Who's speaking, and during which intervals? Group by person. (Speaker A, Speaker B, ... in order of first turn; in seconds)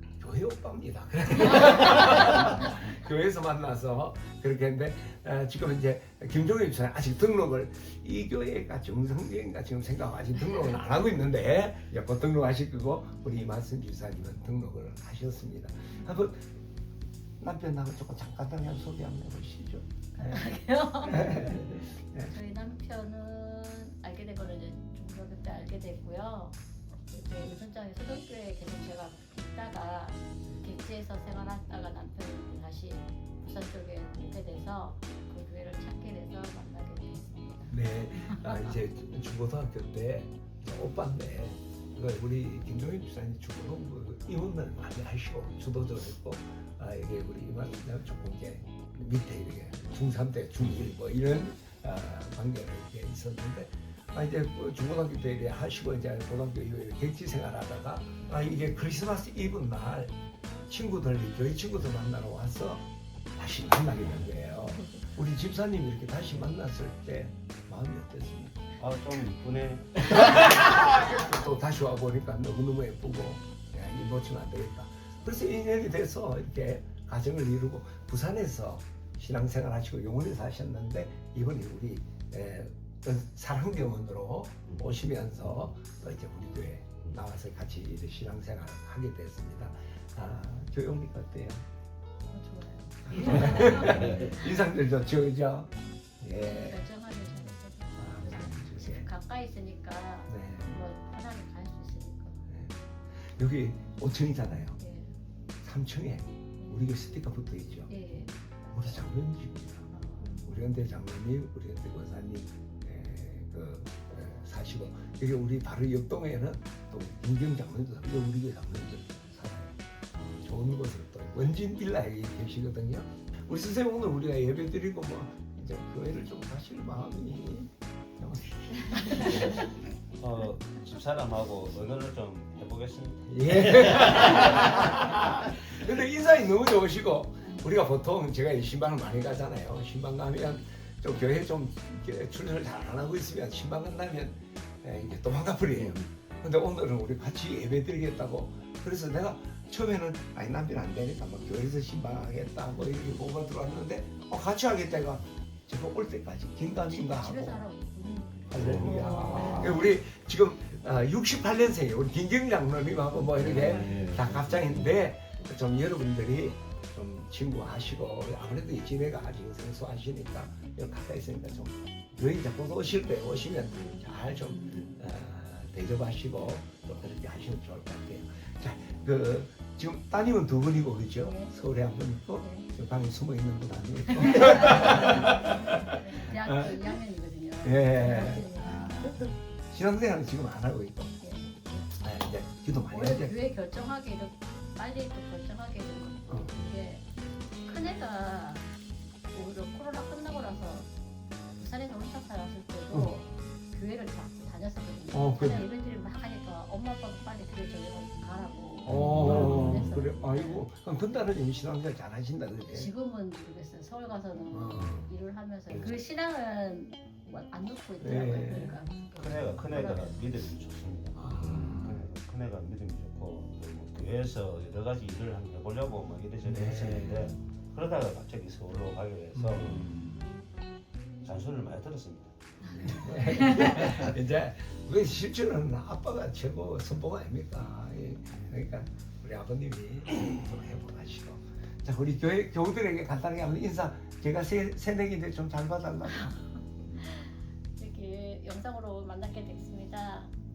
Speaker A: 0.2-16.5, 17.4-22.3, 37.7-60.1, 60.7-68.6, 70.1-91.6, 93.1-96.8, 98.0-99.1, 100.3-100.8, 102.5-104.8, 105.6-107.9, 108.7-129.7, 133.3-157.6, 158.5-186.8, 187.6-191.1, 191.9-193.3, 205.1-205.7, 208.8-212.9, 214.5-215.1, 218.0-218.8, 221.2-221.9, 226.4-227.4, 229.3-230.3, 232.7-246.4
Speaker B: 20.2-26.6, 27.1-38.7, 92.2-94.3, 96.4-102.5, 104.8-105.1, 107.9-108.9, 109.9-110.5, 156.9-159.8, 181.2-181.5, 182.4-182.7, 184.2-189.2, 191.2-191.7, 192.9-197.1, 197.6-198.7, 199.3-200.9, 201.6-210.7, 212.7-220.3, 247.0-250.3
Speaker C: 68.8-70.7, 93.9-94.2, 129.2-129.6, 130.2-134.7, 158.5-159.7, 163.3-164.7, 209.0-209.8, 219.2-229.9, 231.2-233.0, 233.7-234.0